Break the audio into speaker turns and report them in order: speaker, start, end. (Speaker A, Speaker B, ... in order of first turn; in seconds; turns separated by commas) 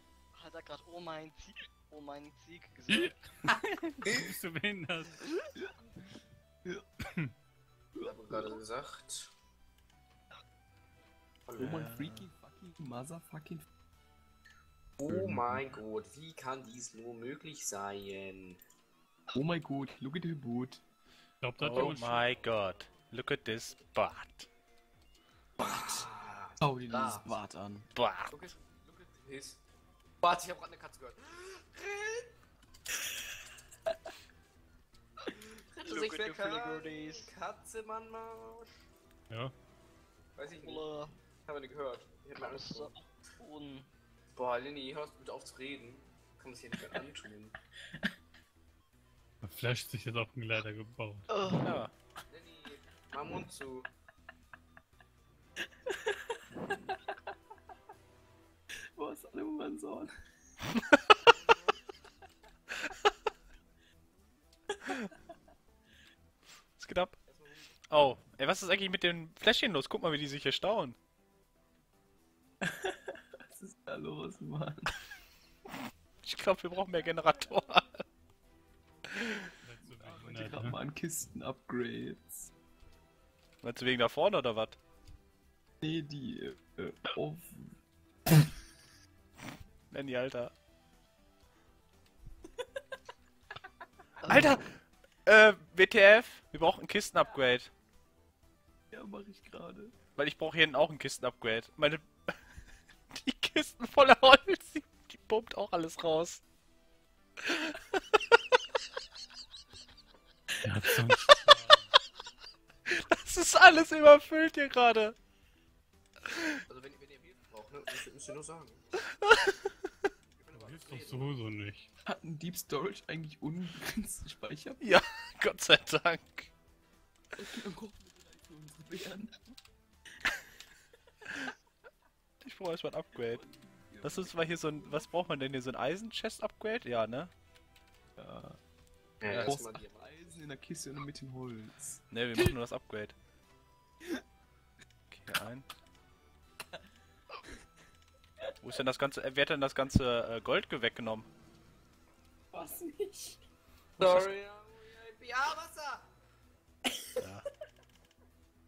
Speaker A: 0.3-3.3, Speaker B: 2.9-5.2, Speaker C: 4.0-4.3, Speaker A: 5.2-6.2, Speaker D: 8.0-8.6, Speaker C: 8.0-9.3, Speaker C: 11.5-11.8, Speaker D: 11.6-13.7, Speaker E: 11.6-12.3, Speaker C: 15.0-18.6, Speaker D: 19.3-20.8, Speaker B: 21.4-22.2, Speaker E: 21.6-24.5, Speaker C: 21.7-23.0, Speaker C: 25.6-27.4, Speaker D: 25.6-26.0, Speaker D: 26.6-27.9, Speaker E: 27.9-28.4, Speaker C: 28.3-29.6, Speaker C: 30.2-32.3, Speaker A: 35.4-37.3, Speaker C: 35.6-38.7, Speaker C: 40.4-40.9, Speaker A: 40.5-41.2, Speaker C: 41.4-42.9, Speaker A: 42.3-43.9, Speaker C: 44.4-47.5, Speaker B: 49.4-51.3, Speaker A: 51.3-51.8, Speaker E: 51.6-51.9, Speaker C: 52.3-53.9, Speaker D: 55.9-57.0, Speaker D: 59.0-60.1, Speaker E: 66.8-67.2, Speaker C: 67.3-67.8, Speaker E: 67.9-71.0, Speaker D: 72.6-74.9, Speaker E: 76.2-78.0, Speaker B: 79.6-80.8, Speaker D: 80.0-82.5, Speaker E: 83.6-84.8, Speaker D: 85.8-87.8, Speaker E: 89.9-90.5, Speaker A: 94.2-94.6, Speaker E: 94.3-97.7, Speaker D: 98.9-99.9, Speaker E: 100.2-102.3, Speaker E: 103.1-106.4, Speaker E: 107.4-108.0, Speaker B: 110.6-111.9, Speaker E: 112.9-115.2, Speaker E: 116.3-116.6, Speaker C: 116.7-119.0, Speaker E: 119.2-119.5, Speaker C: 120.3-121.4, Speaker B: 120.5-121.9, Speaker D: 122.1-124.8, Speaker E: 124.8-126.5, Speaker D: 127.4-129.4, Speaker E: 132.4-133.4, Speaker D: 133.1-135.1, Speaker E: 134.0-137.3, Speaker D: 138.2-138.6, Speaker C: 139.2-140.5, Speaker E: 139.2-139.5, Speaker D: 139.4-142.5, Speaker E: 142.1-143.2, Speaker E: 145.1-145.7, Speaker E: 148.6-151.3, Speaker D: 152.5-153.4, Speaker E: 154.0-154.3, Speaker C: 154.0-156.1, Speaker D: 156.9-157.2, Speaker E: 157.2-157.4